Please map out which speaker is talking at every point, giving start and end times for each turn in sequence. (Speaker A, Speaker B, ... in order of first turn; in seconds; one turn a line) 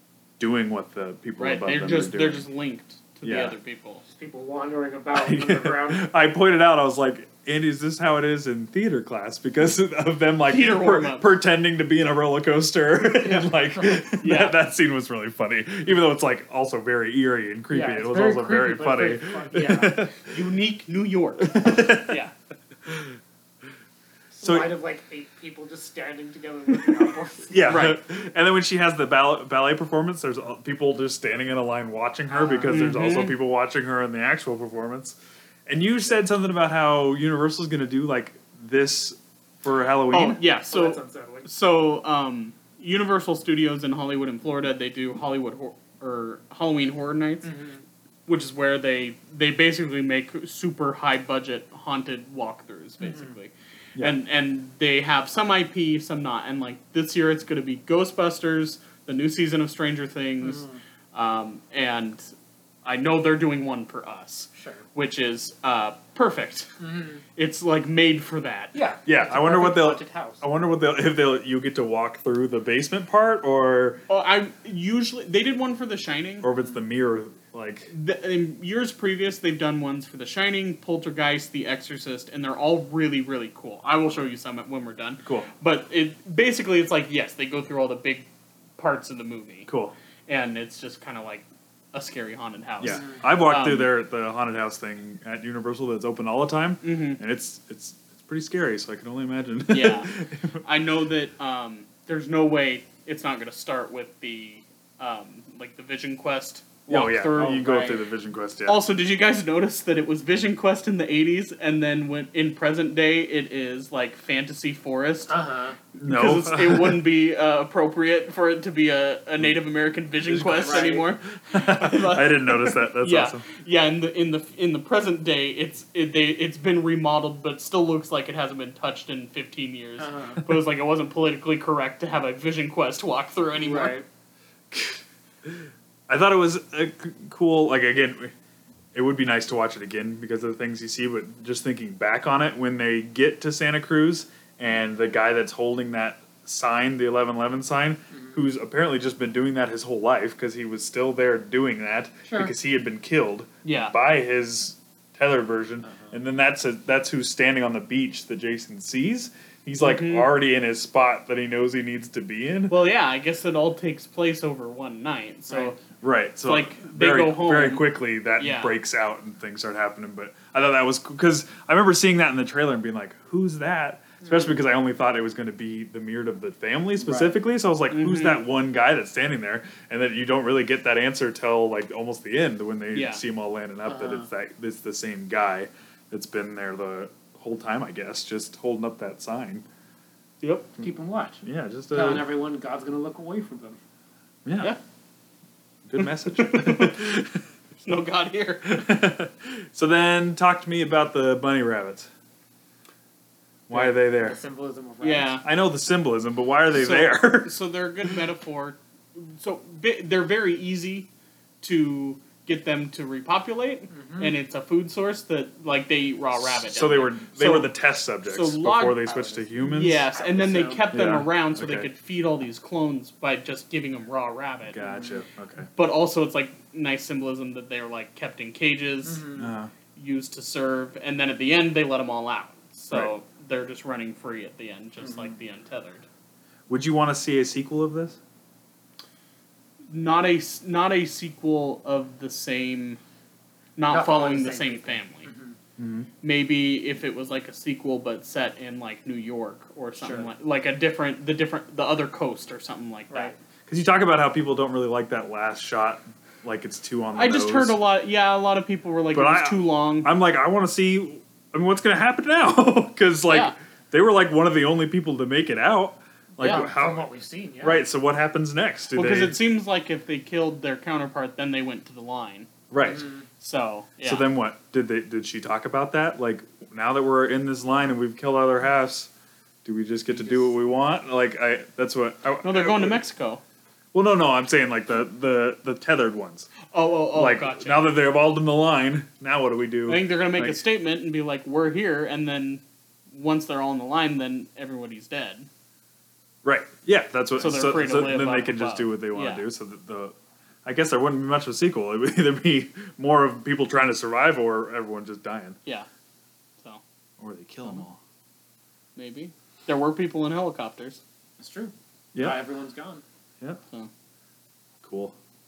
Speaker A: 0.4-2.5
Speaker B: 1.4-4.0
Speaker A: 3.2-3.5
Speaker C: 4.1-6.1
Speaker A: 5.2-20.3
Speaker B: 10.5-11.3
Speaker B: 14.2-14.5
Speaker C: 17.7-20.0
Speaker B: 20.2-22.3
Speaker A: 21.4-22.2
Speaker A: 22.9-23.2
Speaker C: 24.4-27.8
Speaker A: 24.4-24.7
Speaker A: 26.8-40.4
Speaker B: 27.6-28.0
Speaker C: 32.3-33.0
Speaker B: 32.7-33.4
Speaker B: 40.1-47.5
Speaker C: 40.7-41.5
Speaker C: 47.4-47.8
Speaker B: 48.3-62.3
Speaker C: 53.0-53.3
Speaker C: 60.4-60.8
Speaker B: 62.9-66.7
Speaker C: 64.6-64.8
Speaker C: 66.8-67.2
Speaker B: 67.4-68.7
Speaker C: 68.7-70.4
Speaker A: 69.1-74.0
Speaker B: 74.1-76.5
Speaker A: 76.4-77.9
Speaker B: 77.9-88.3
Speaker B: 88.8-89.7
Speaker A: 89.7-90.0
Speaker B: 90.3-93.9
Speaker A: 92.8-100.6
Speaker C: 92.8-93.2
Speaker B: 96.8-97.2
Speaker B: 99.7-107.7
Speaker A: 106.9-108.8
Speaker C: 107.3-108.0
Speaker B: 108.7-115.4
Speaker C: 115.3-115.8
Speaker B: 115.9-134.0
Speaker A: 116.0-117.0
Speaker A: 120.2-123.5
Speaker C: 120.6-121.1
Speaker C: 130.0-130.4
Speaker C: 133.6-134.1
Speaker A: 134.7-138.3
Speaker A: 138.9-162.8
Speaker C: 152.2-152.5
Speaker B: 153.7-153.9
Speaker B: 159.8-160.3
Speaker B: 162.7-165.8
Speaker C: 165.5-165.7
Speaker A: 166.0-189.7
Speaker B: 166.4-168.8
Speaker C: 174.2-174.5
Speaker C: 177.0-177.3
Speaker B: 177.9-178.4
Speaker B: 182.9-183.2
Speaker C: 183.9-184.3
Speaker B: 190.4-190.7
Speaker C: 190.8-193.8
Speaker A: 191.4-192.3
Speaker A: 194.4-194.8
Speaker A: 195.8-197.4
Speaker B: 196.0-197.2
Speaker B: 197.8-198.7
Speaker A: 198.6-202.1
Speaker A: 203.7-204.4
Speaker C: 203.7-205.4
Speaker B: 205.0-205.4
Speaker A: 205.4-208.2
Speaker B: 206.7-211.1
Speaker B: 211.6-217.7
Speaker C: 213.9-214.4
Speaker A: 216.3-220.1
Speaker B: 218.2-219.1
Speaker C: 219.1-220.9
Speaker B: 219.6-224.8
Speaker A: 220.9-221.9
Speaker A: 224.7-225.7
Speaker C: 224.8-225.2
Speaker B: 225.8-229.3
Speaker C: 229.0-229.5
Speaker A: 229.4-229.7
Speaker B: 229.9-236.1
Speaker C: 235.0-235.4
Speaker A: 236.7-238.2
Speaker B: 239.9-243.0
Speaker B: 243.8-245.3
Speaker C: 243.9-245.6
Speaker A: 245.8-246.1
Speaker B: 246.2-253.4
Speaker C: 250.0-250.3
Speaker A: 253.7-257.8
Speaker B: 257.2-260.1
Speaker A: 259.1-267.1
Speaker B: 263.3-263.6
Speaker C: 266.4-267.8
Speaker B: 266.4-266.7
Speaker A: 267.6-269.4
Speaker B: 268.9-272.5
Speaker A: 272.7-273.1
Speaker C: 272.8-273.2
Speaker B: 273.3-274.3
Speaker A: 274.0-279.1
Speaker A: 279.6-283.0
Speaker B: 282.4-283.4
Speaker A: 283.9-286.5
Speaker B: 286.7-287.9
Speaker A: 287.1-290.6
Speaker B: 289.9-295.5
Speaker A: 296.4-305.6
Speaker B: 297.4-299.4
Speaker A: 307.2-308.0
Speaker B: 309.0-311.0
Speaker C: 311.4-313.0
Speaker A: 312.1-312.4
Speaker A: 314.8-315.1